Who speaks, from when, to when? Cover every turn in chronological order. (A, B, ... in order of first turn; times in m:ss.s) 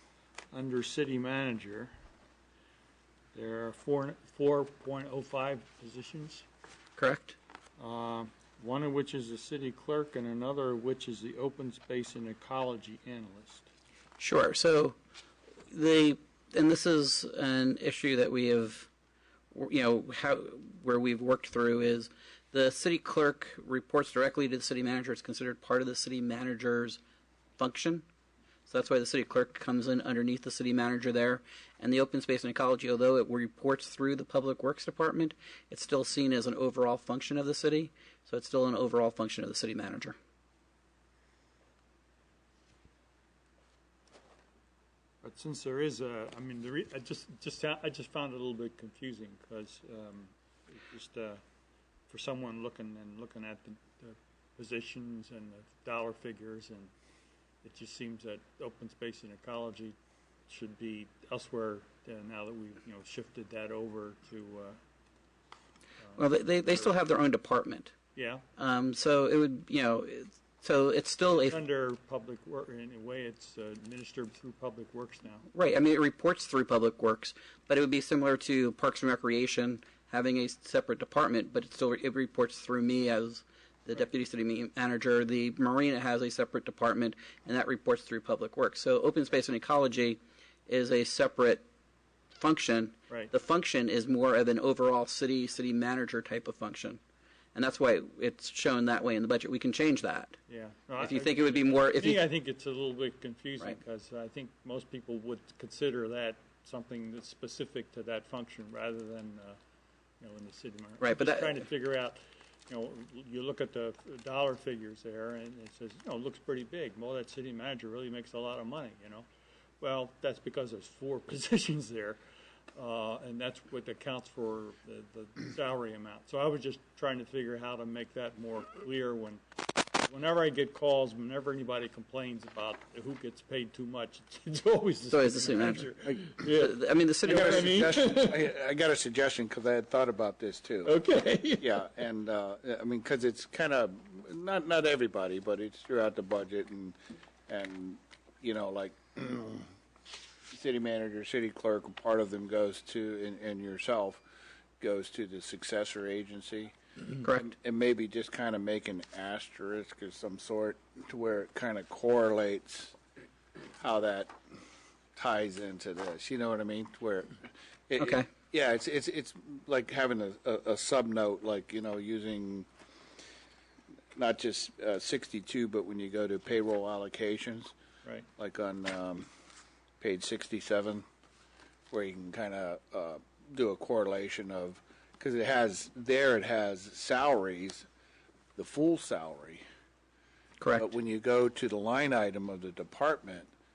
0:00.5-0:01.9 A
0:03.3-0:06.4 A
0:07.0-0:07.3 B
0:07.8-0:13.7 A
0:14.2-0:14.9 B
0:15.7-0:18.9 B
0:19.5-0:27.0 B
0:27.6-0:28.0 B
0:28.7-0:40.2 B
0:45.2-0:51.4 A
0:52.1-0:56.9 A
0:57.6-1:00.0 A
1:00.5-1:04.8 A
1:06.2-1:07.9 B
1:08.1-1:08.4 A
1:08.6-1:11.6 B
1:11.3-1:15.5 A
1:15.5-1:31.6 B
1:32.4-1:37.0 B
1:37.5-1:40.4 B
1:40.5-1:49.6 A
1:41.0-1:42.2 B
1:50.2-1:59.2 A
1:51.0-1:51.6 B
1:59.8-2:02.2 A
2:02.7-2:09.4 A
2:10.0-2:18.5 A
2:15.1-2:17.9 B
2:17.2-2:21.0 C
2:20.8-2:21.8 A
2:21.6-2:27.0 C
2:27.5-2:29.6 C
2:30.5-2:34.2 C
2:34.8-2:36.7 C
2:37.2-2:42.9 C
2:43.8-2:44.3 C
2:45.2-2:52.7 C
2:48.0-2:48.3 B
2:54.2-2:57.7 C
2:58.4-2:59.2 C
3:00.0-3:01.0 C
3:01.9-3:07.8 C
3:08.6-3:09.6 C
3:10.6-3:10.9 B
3:10.8-3:13.5 C